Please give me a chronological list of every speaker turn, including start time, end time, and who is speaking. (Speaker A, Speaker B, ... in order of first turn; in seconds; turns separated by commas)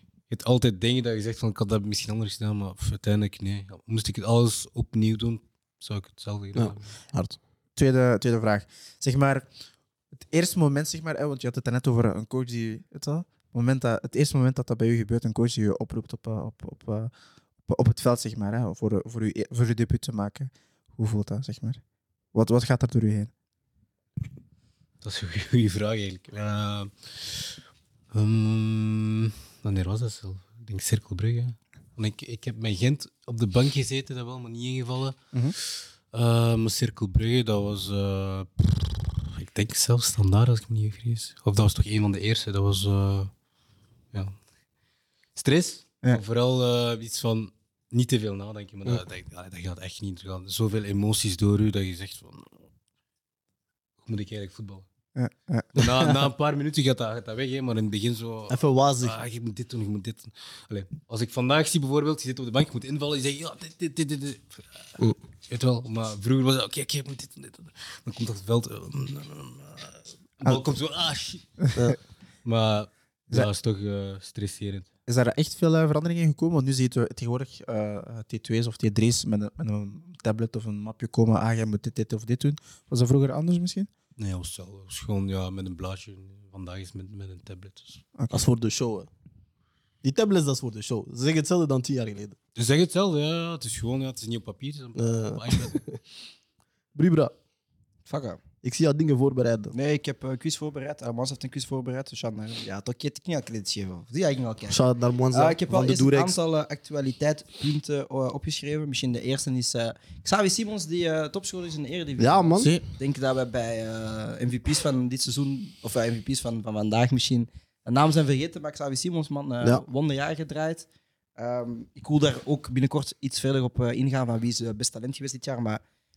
Speaker A: 0.3-6.9, Speaker B: 6.5-7.4, Speaker C: 7.8-9.5, Speaker C: 10.2-17.1, Speaker C: 17.7-21.8, Speaker C: 22.3-23.3, Speaker A: 25.0-27.6, Speaker A: 28.1-43.3, Speaker A: 45.4-52.5, Speaker A: 54.0-54.9, Speaker C: 55.1-55.9, Speaker A: 55.7-71.6, Speaker B: 58.5-59.1, Speaker C: 71.6-71.9, Speaker A: 72.4-74.9, Speaker C: 75.1-83.9, Speaker A: 84.2-88.0, Speaker B: 88.3-89.1, Speaker B: 90.0-92.3, Speaker A: 92.5-95.8, Speaker B: 95.0-96.0, Speaker B: 96.9-97.3, Speaker D: 98.1-98.4, Speaker B: 98.6-99.7, Speaker D: 99.7-104.8, Speaker B: 104.7-106.3, Speaker D: 105.3-120.8, Speaker B: 112.2-112.8, Speaker C: 112.6-112.8, Speaker D: 121.4-125.8